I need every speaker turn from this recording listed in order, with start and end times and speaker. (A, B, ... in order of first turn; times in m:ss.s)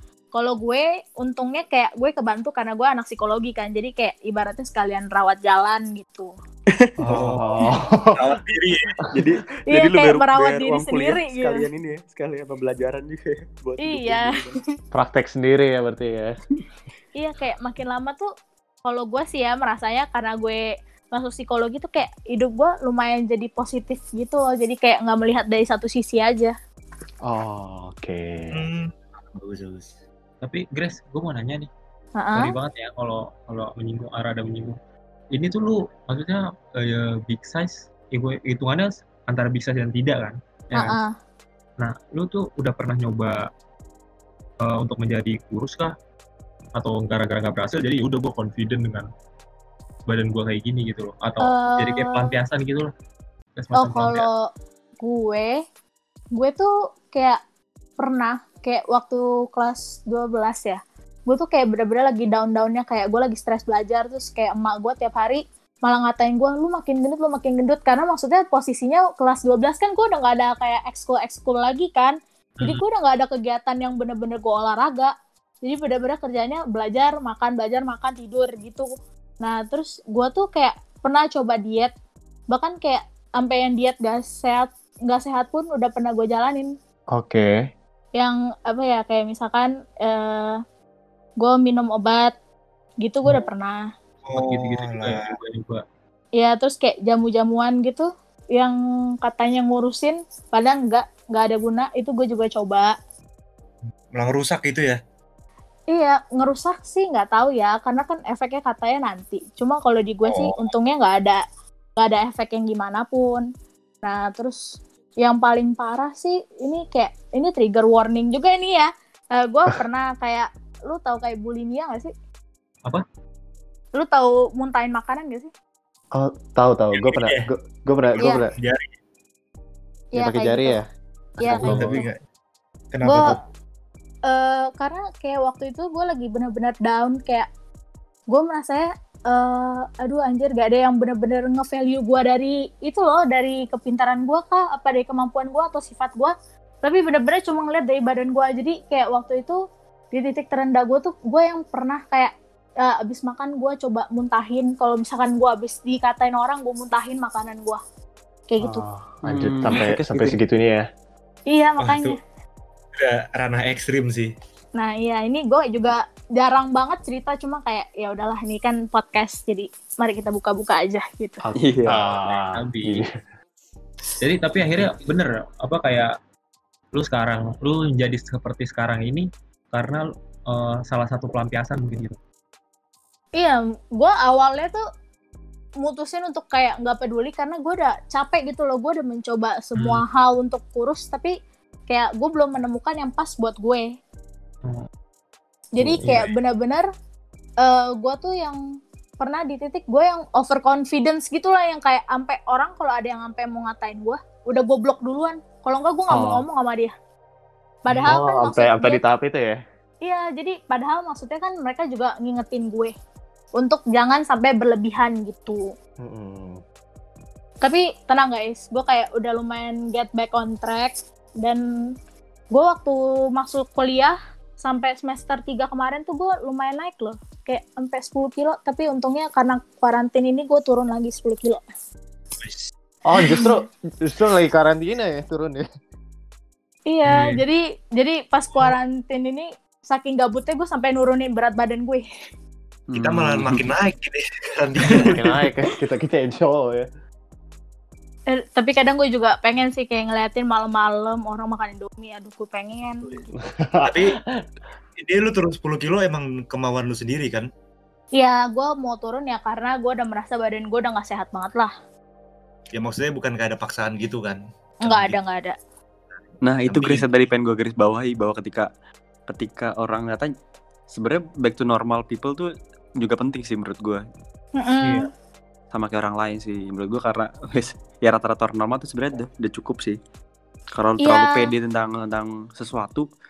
0:00.3-0:06.3 A
0:07.0-0:08.4 B
0:07.1-0:07.4 C
0:08.2-0:09.0 C
0:09.0-0:09.2 B
0:09.1-0:14.6 D
0:09.7-0:11.6 A
0:13.8-0:14.2 A
0:14.9-0:16.4 B
0:17.2-0:18.3 A
0:18.8-0:20.6 A
0:21.1-0:26.5 A
0:27.3-0:28.6 B
0:28.5-0:29.9 C
0:30.4-0:31.7 E
0:32.2-0:32.5 A
0:32.3-0:34.8 E
0:35.3-0:41.0 E
0:40.7-0:41.1 A
0:41.8-0:43.4 E
0:44.6-0:45.9 E
0:46.8-0:49.1 E
0:50.1-0:52.9 E
0:51.4-0:52.3 A
0:53.6-0:54.3 E
0:53.8-0:54.4 A
0:55.0-0:55.6 A
0:56.4-0:57.4 A
0:58.0-1:18.9 A
1:12.6-1:12.8 E
1:19.4-1:21.9 A
1:22.5-1:26.7 A
1:27.1-1:27.5 B
1:28.2-1:30.6 A
1:31.4-1:32.3 A
1:33.0-1:33.8 A
1:34.2-1:35.2 C
1:34.3-1:35.8 E
1:36.4-1:42.9 A
1:44.1-1:45.0 C
1:45.9-1:51.4 A
1:50.3-1:50.5 C
1:52.0-1:53.5 A
1:54.0-1:54.6 A
1:55.2-2:02.1 A
2:04.0-2:05.5 A
2:06.1-2:08.5 B
2:07.0-2:07.5 C
2:08.1-2:08.9 C
2:10.1-2:10.8 A
2:10.2-2:10.8 B
2:11.4-2:11.9 B
2:11.4-2:12.0 A
2:11.6-2:12.2 C
2:12.9-2:13.4 C
2:13.0-2:13.4 A
2:14.3-2:17.5 A
2:18.3-2:29.6 A
2:30.1-2:37.8 A
2:38.5-2:38.8 A
2:38.6-2:40.8 B
2:39.2-2:40.4 D
2:41.5-2:42.2 A
2:41.8-2:42.2 C
2:42.9-2:44.3 C
2:44.8-2:51.4 A
2:51.4-2:53.0 B
2:51.6-2:52.0 D
2:52.5-2:53.0 E
2:54.2-2:56.1 E
2:56.9-3:02.2 E
3:03.4-3:04.8 A
3:05.8-3:11.3 A
3:09.8-3:10.0 E
3:11.9-3:13.9 A
3:15.8-3:16.9 A
3:15.8-3:16.3 E
3:17.6-3:18.6 A
3:19.2-3:26.9 A
3:26.1-3:26.4 B
3:27.8-3:29.0 A
3:28.0-3:29.6 B
3:30.0-3:32.9 A
3:33.6-3:35.6 A
3:36.0-3:36.6 B
3:37.6-3:41.6 A
3:42.5-3:51.6 A
3:52.4-3:52.7 C
3:53.1-3:55.6 B
3:53.2-3:53.5 A
3:56.9-4:02.0 A
3:57.0-3:57.4 E
4:02.9-4:03.6 D
4:03.0-4:05.2 C
4:05.0-4:06.9 B
4:08.3-4:13.2 A
4:13.4-4:14.2 B
4:13.8-4:14.2 C
4:15.0-4:17.5 C
4:18.2-4:21.7 A
4:22.7-4:25.2 C
4:24.8-4:25.6 A
4:26.4-4:28.7 D
4:26.6-4:27.1 C
4:29.3-4:30.3 D
4:30.9-4:34.0 D
4:34.6-4:35.1 A
4:34.8-4:35.1 E
4:35.7-4:40.0 D
4:40.7-4:43.1 D
4:41.0-4:41.5 A